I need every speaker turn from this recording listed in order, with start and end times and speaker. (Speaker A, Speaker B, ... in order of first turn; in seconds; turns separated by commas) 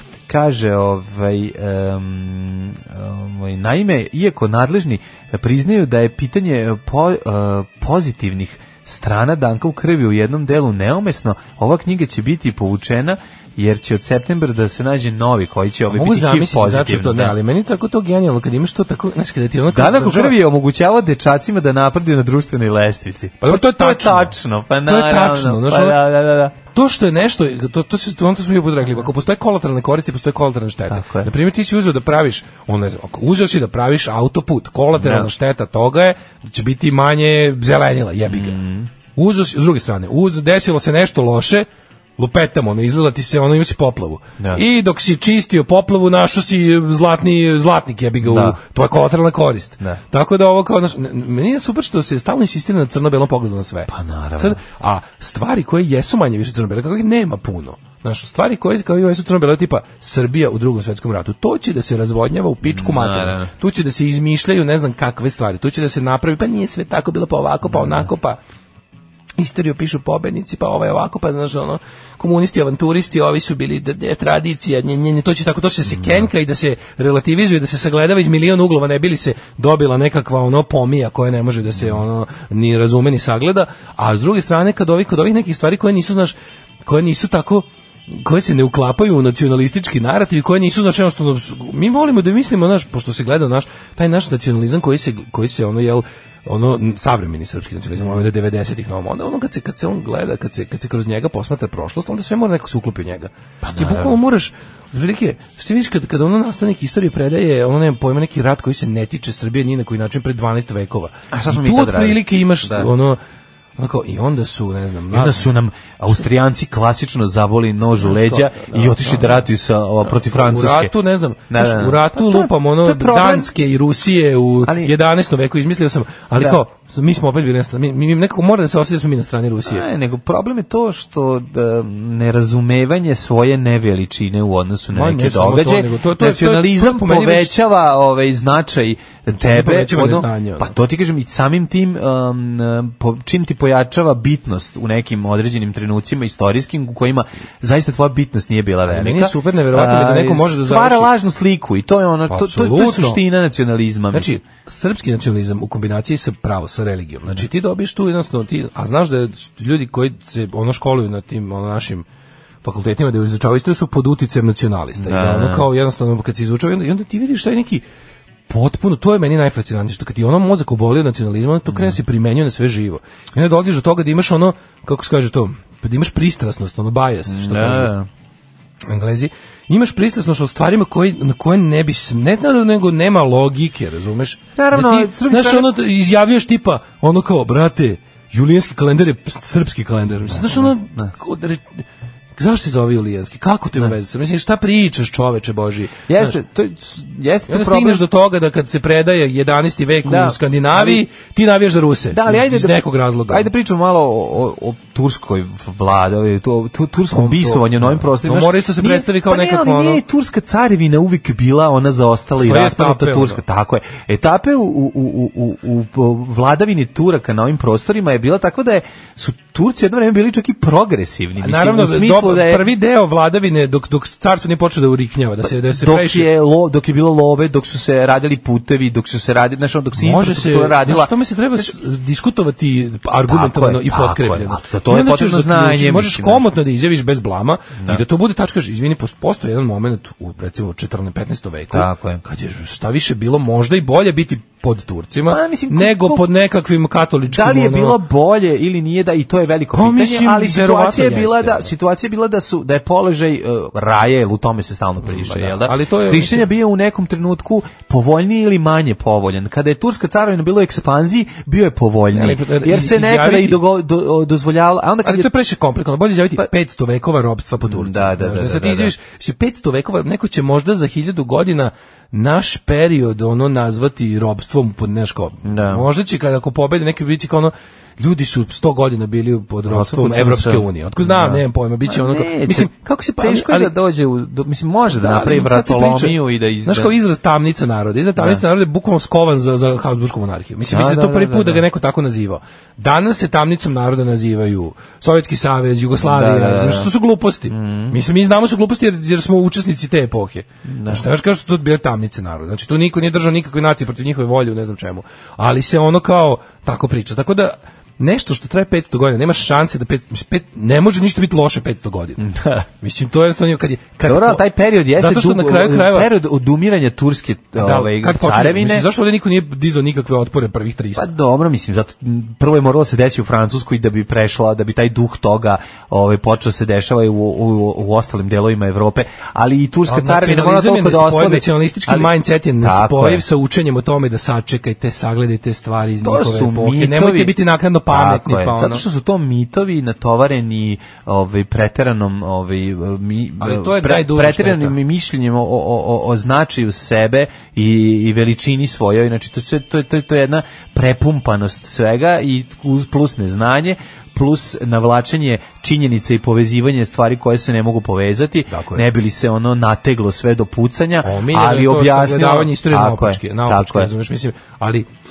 Speaker A: 0.3-17.4, Speaker B: 15.9-20.4, Speaker A: 19.7-26.5, Speaker B: 23.4-26.0, Speaker B: 26.7-38.6, Speaker A: 30.9-31.3, Speaker A: 34.9-35.3, Speaker A: 38.2-38.9, Speaker B: 39.1-41.6, Speaker B: 42.2-68.4, Speaker A: 48.2-48.6, Speaker A: 53.9-54.6, Speaker A: 62.6-63.5, Speaker A: 67.6-68.1, Speaker B: 69.4-113.2, Speaker A: 75.8-76.3, Speaker A: 81.8-82.0, Speaker A: 98.0-98.2, Speaker A: 103.6-104.2, Speaker A: 111.3-112.9, Speaker B: 113.8-115.5, Speaker A: 115.1-120.9, Speaker B: 118.0-119.5, Speaker B: 120.1-129.9, Speaker A: 121.5-123.5, Speaker A: 124.6-124.9, Speaker A: 129.6-154.3, Speaker B: 134.9-137.6, Speaker B: 139.3-140.7, Speaker B: 148.9-151.1, Speaker B: 152.3-153.2, Speaker B: 154.1-162.0, Speaker B: 162.6-167.8, Speaker A: 165.0-165.7, Speaker B: 168.5-177.9, Speaker A: 171.7-172.0, Speaker A: 177.3-178.1, Speaker B: 178.8-191.8, Speaker A: 184.6-185.7, Speaker A: 190.3-191.1, Speaker B: 192.4-196.4, Speaker A: 196.1-198.0, Speaker B: 197.5-203.5, Speaker A: 200.0-201.0, Speaker A: 202.1-222.7, Speaker B: 207.1-210.0, Speaker B: 212.4-213.4, Speaker B: 221.4-226.3, Speaker A: 225.4-231.7, Speaker B: 230.0-248.0, Speaker A: 233.3-236.5, Speaker A: 237.8-238.0, Speaker A: 241.7-242.2, Speaker A: 245.3-246.2, Speaker A: 247.3-265.3, Speaker B: 249.7-251.7, Speaker B: 255.0-256.5, Speaker B: 262.1-263.6, Speaker B: 265.0-283.7, Speaker A: 267.6-268.9, Speaker A: 275.4-275.8, Speaker A: 279.7-286.9, Speaker B: 284.9-312.2, Speaker A: 288.2-288.4, Speaker A: 290.7-291.6, Speaker A: 296.0-296.9, Speaker A: 297.5-298.0, Speaker A: 300.6-301.1, Speaker A: 312.2-312.6, Speaker B: 312.8-316.1, Speaker A: 314.0-318.9, Speaker B: 317.6-321.1, Speaker A: 320.9-333.2, Speaker B: 329.9-338.8, Speaker A: 336.0-337.4, Speaker A: 337.9-363.9, Speaker B: 343.4-344.8, Speaker B: 358.5-358.9, Speaker B: 361.0-364.9